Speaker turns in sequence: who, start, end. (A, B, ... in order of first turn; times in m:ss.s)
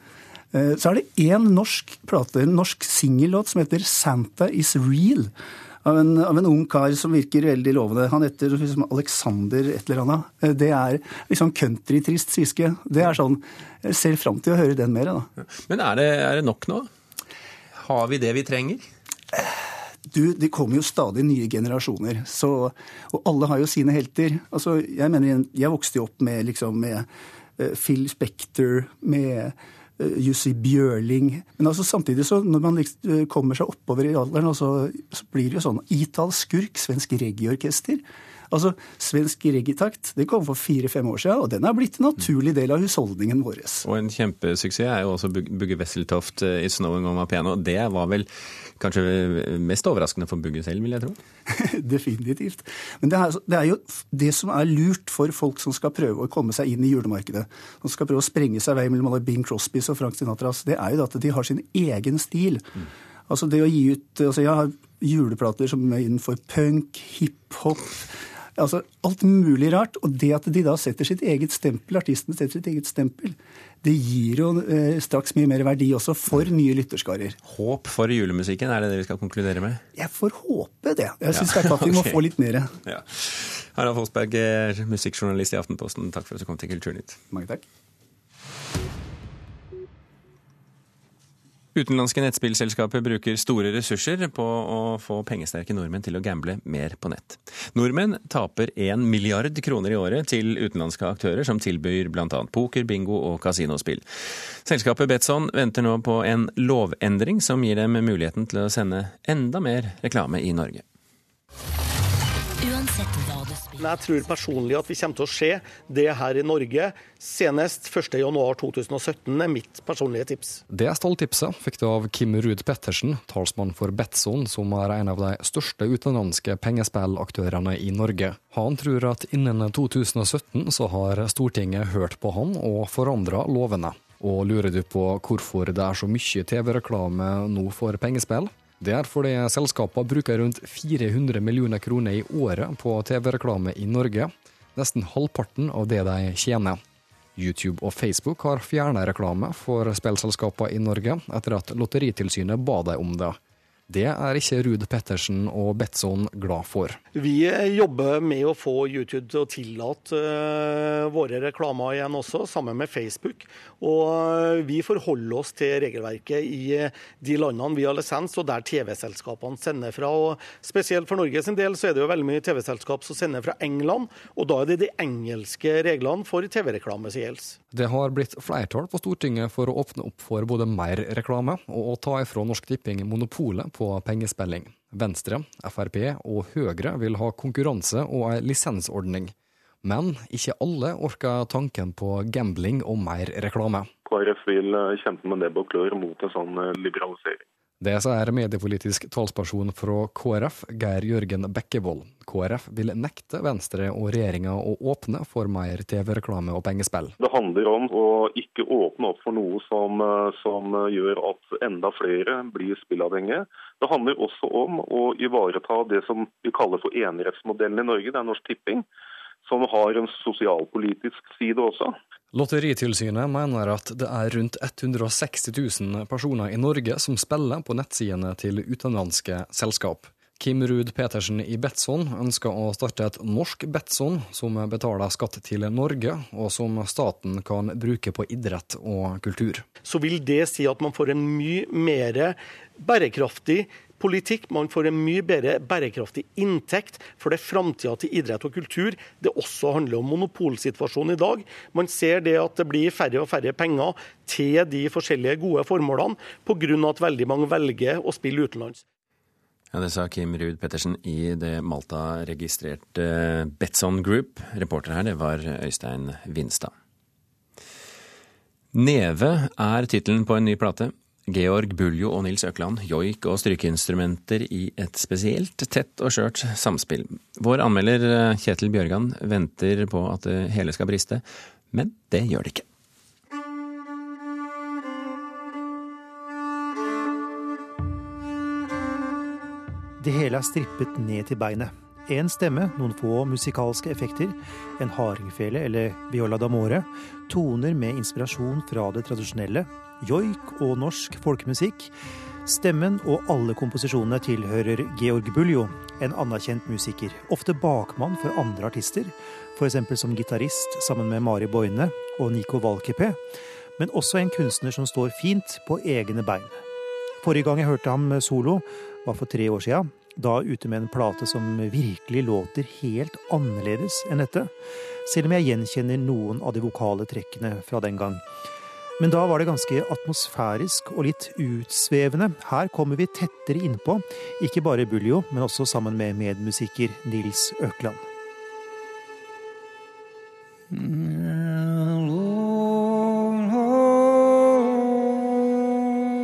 0:00.5-0:05.3 A
0:05.8-0:15.3 A
0:15.4-0:16.9 B
0:17.8-0:18.9 B
0:20.1-0:27.1 A
0:27.6-0:43.9 A
0:43.8-0:51.2 B
0:51.5-1:17.4 A
1:17.5-1:19.8 B
1:20.0-1:22.7 A
1:21.3-1:22.2 B
1:22.8-1:27.2 B
1:27.3-1:27.6 A
1:31.8-1:44.0 B
1:44.6-1:50.8 B
1:53.8-2:00.6 C
2:00.7-2:26.8 D
2:27.4-2:33.4 D
2:33.9-2:37.0 D
2:37.2-2:57.6 C
2:57.7-3:13.9 D
3:14.1-3:17.4 E
3:17.8-3:27.2 D
3:27.2-3:38.9 E
3:39.4-3:42.0 E
3:42.3-3:59.7 D
3:59.8-4:18.8 C
4:19.7-4:26.7 B
4:28.7-4:42.6 B
4:50.0-5:01.9 F
5:02.5-5:13.2 F
5:13.8-5:16.6 F
5:17.2-5:24.5 F
5:25.0-5:28.2 F
5:29.0-5:38.0 F